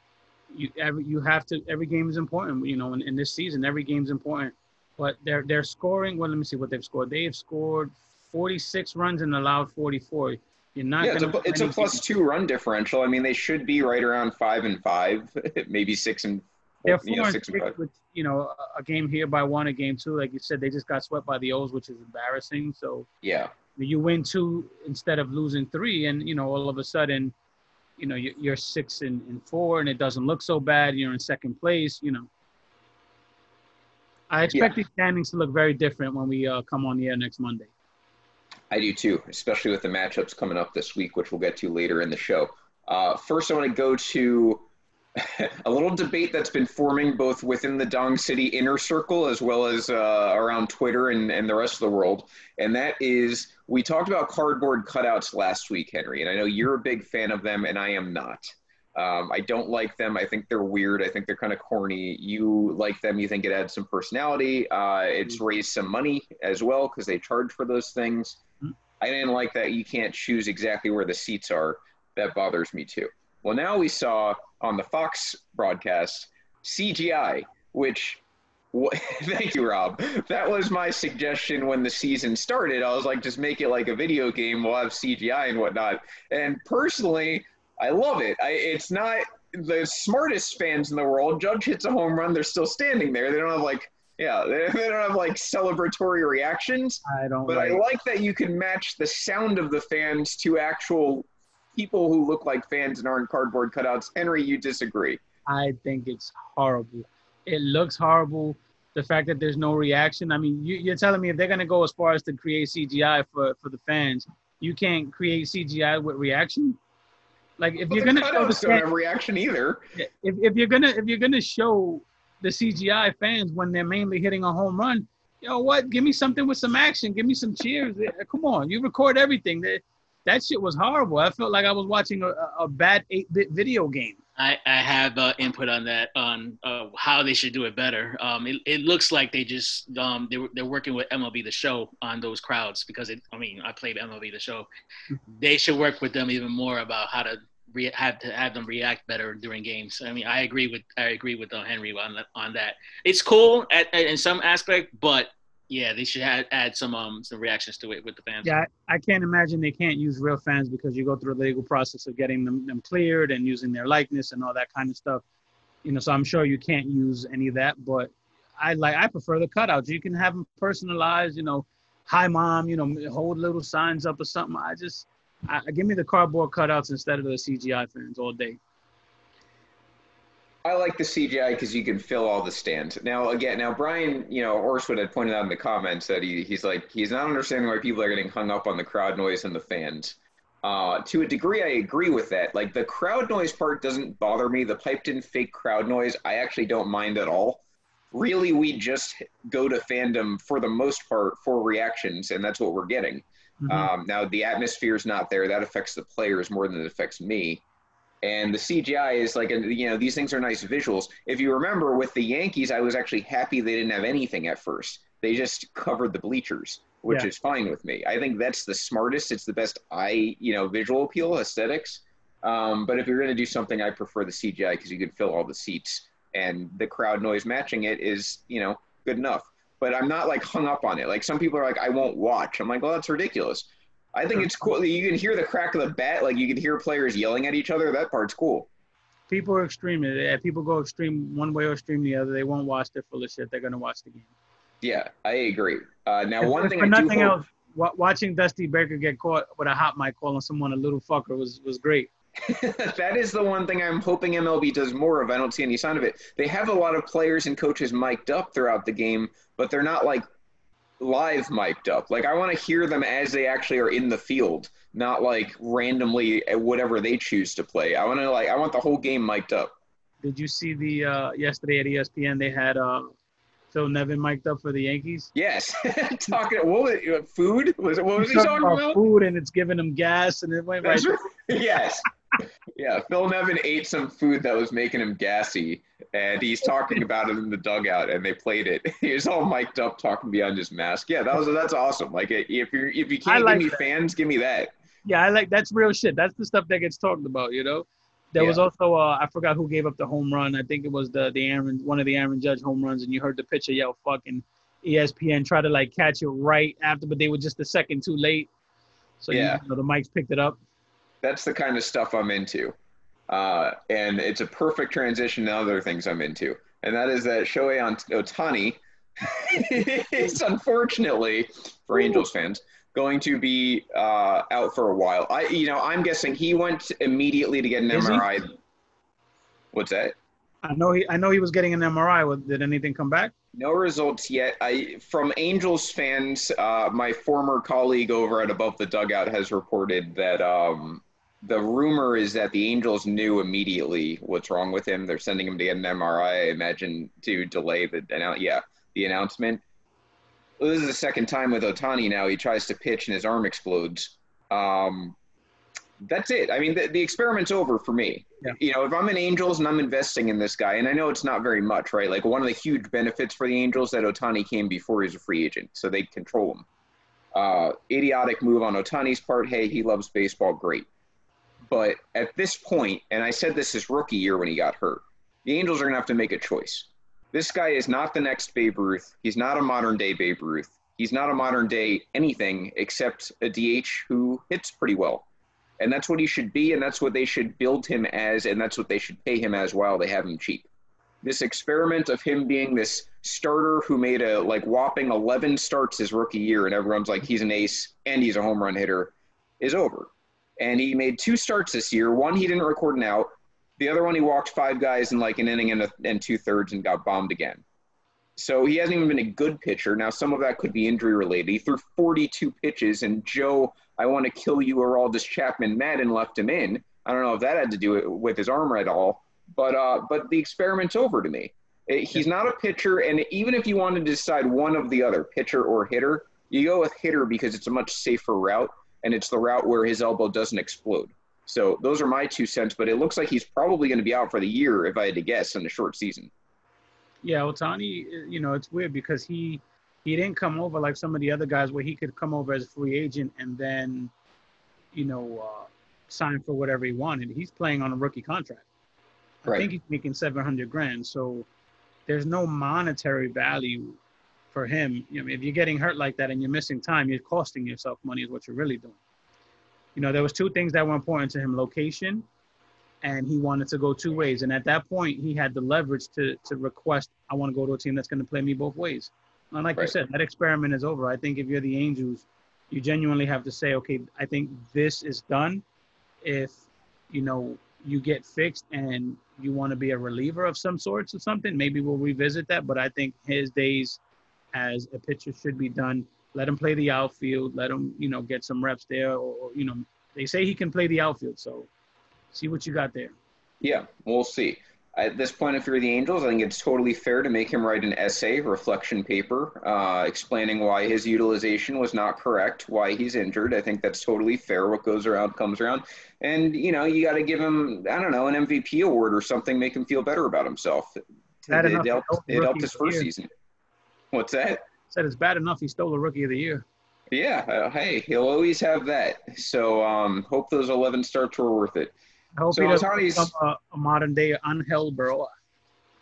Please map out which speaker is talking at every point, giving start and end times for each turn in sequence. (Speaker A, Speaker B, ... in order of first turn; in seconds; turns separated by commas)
Speaker A: 0.5-12.0, Speaker B: 11.0-17.8, Speaker A: 16.9-23.1, Speaker B: 23.2-23.5, Speaker A: 23.8-27.3, Speaker A: 28.0-32.3, Speaker A: 34.3-37.7, Speaker B: 34.5-34.8, Speaker B: 38.7-44.6, Speaker B: 45.2-68.4, Speaker B: 69.0-78.2, Speaker B: 78.7-105.2, Speaker A: 97.0-97.8, Speaker A: 105.5-116.8, Speaker A: 117.6-118.8, Speaker B: 117.9-119.8, Speaker A: 120.0-134.2, Speaker C: 134.4-144.7, Speaker C: 145.3-158.5, Speaker A: 158.4-165.2, Speaker A: 165.8-178.6, Speaker B: 180.6-197.6, Speaker B: 198.1-207.6, Speaker A: 203.6-203.9, Speaker B: 208.2-238.7, Speaker A: 234.4-234.7, Speaker A: 239.3-244.3, Speaker B: 244.8-247.4, Speaker A: 246.4-252.1, Speaker B: 252.4-260.2, Speaker B: 261.0-269.7, Speaker A: 270.2-273.1, Speaker A: 273.7-275.3, Speaker B: 275.4-279.0, Speaker A: 278.2-281.1, Speaker B: 280.8-282.1, Speaker B: 282.8-294.7, Speaker A: 293.2-293.8, Speaker A: 295.1-308.5, Speaker A: 309.2-310.6, Speaker B: 309.3-309.6, Speaker B: 311.2-312.8, Speaker B: 313.3-328.5, Speaker A: 327.9-328.3, Speaker B: 329.7-330.2, Speaker A: 330.6-333.3, Speaker B: 333.5-349.6, Speaker B: 350.6-355.2, Speaker B: 356.0-366.6, Speaker B: 367.3-370.9, Speaker B: 371.7-385.2, Speaker B: 385.8-390.7, Speaker B: 391.2-407.6, Speaker B: 408.4-436.3, Speaker A: 437.2-444.1, Speaker A: 444.9-448.6, Speaker A: 449.4-451.5, Speaker A: 452.1-454.0, Speaker A: 454.5-459.0, Speaker A: 459.9-462.2, Speaker A: 463.0-475.6, Speaker A: 476.2-476.6, Speaker A: 477.1-484.0, Speaker A: 484.5-491.7, Speaker A: 492.3-493.1, Speaker B: 493.6-513.3, Speaker A: 511.5-513.1, Speaker B: 514.1-514.6, Speaker A: 514.9-516.6, Speaker B: 517.1-521.9, Speaker A: 522.4-525.3, Speaker B: 522.5-523.3